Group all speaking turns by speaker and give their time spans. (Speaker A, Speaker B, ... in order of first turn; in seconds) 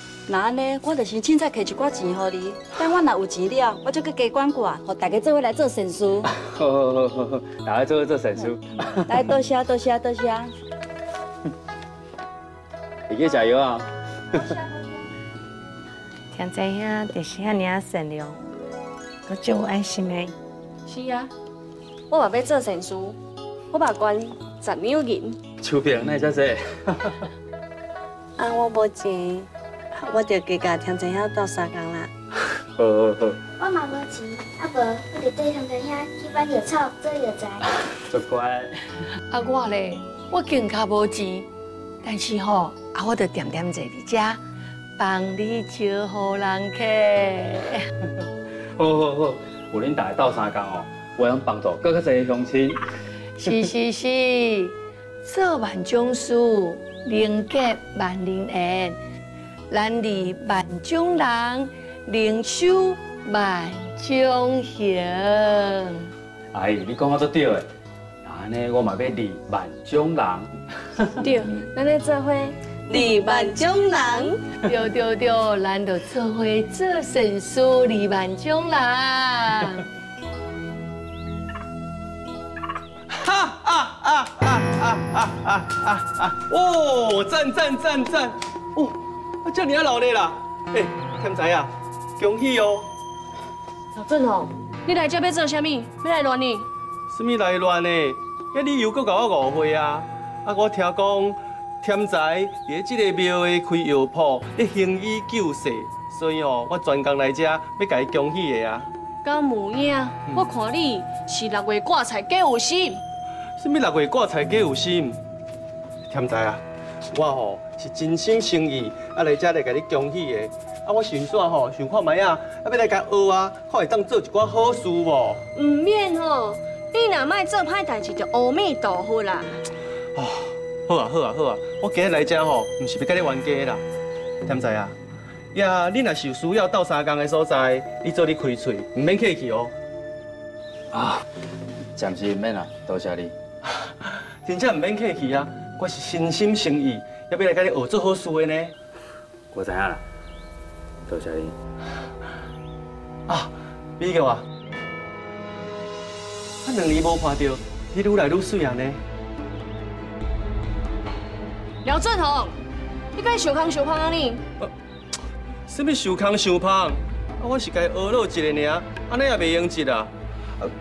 Speaker A: 0.3-6.3, 9.1-10.5, 72.9-73.9
Speaker B: 6.3-9.3, 13.1-14.6, 25.6-27.2, 32.8-33.4, 38.1-38.8, 48.8-52.8, 66.5-67.7, 68.2-71.2, 140.9-141.2, 142.0-143.3, 149.5-150.0, 151.1-151.6
Speaker C: 16.3-18.4, 19.3-20.4, 28.4-32.1
Speaker D: 20.9-21.3, 22.1-23.2, 23.7-25.4, 71.2-74.4, 94.0-96.7, 109.2-113.0, 125.5-129.6, 161.8-162.6, 163.2-164.4
Speaker E: 33.6-37.7
Speaker F: 39.3-41.5, 42.0-44.4, 45.0-47.9, 53.4-59.0, 59.7-66.1, 74.6-79.8
Speaker G: 83.1-92.9, 97.1-108.9, 113.6-115.2, 116.1-125.4, 130.2-133.8, 134.5-134.9, 135.5-139.7, 144.4-148.7, 153.3-154.4, 156.6-159.0, 165.7-170.1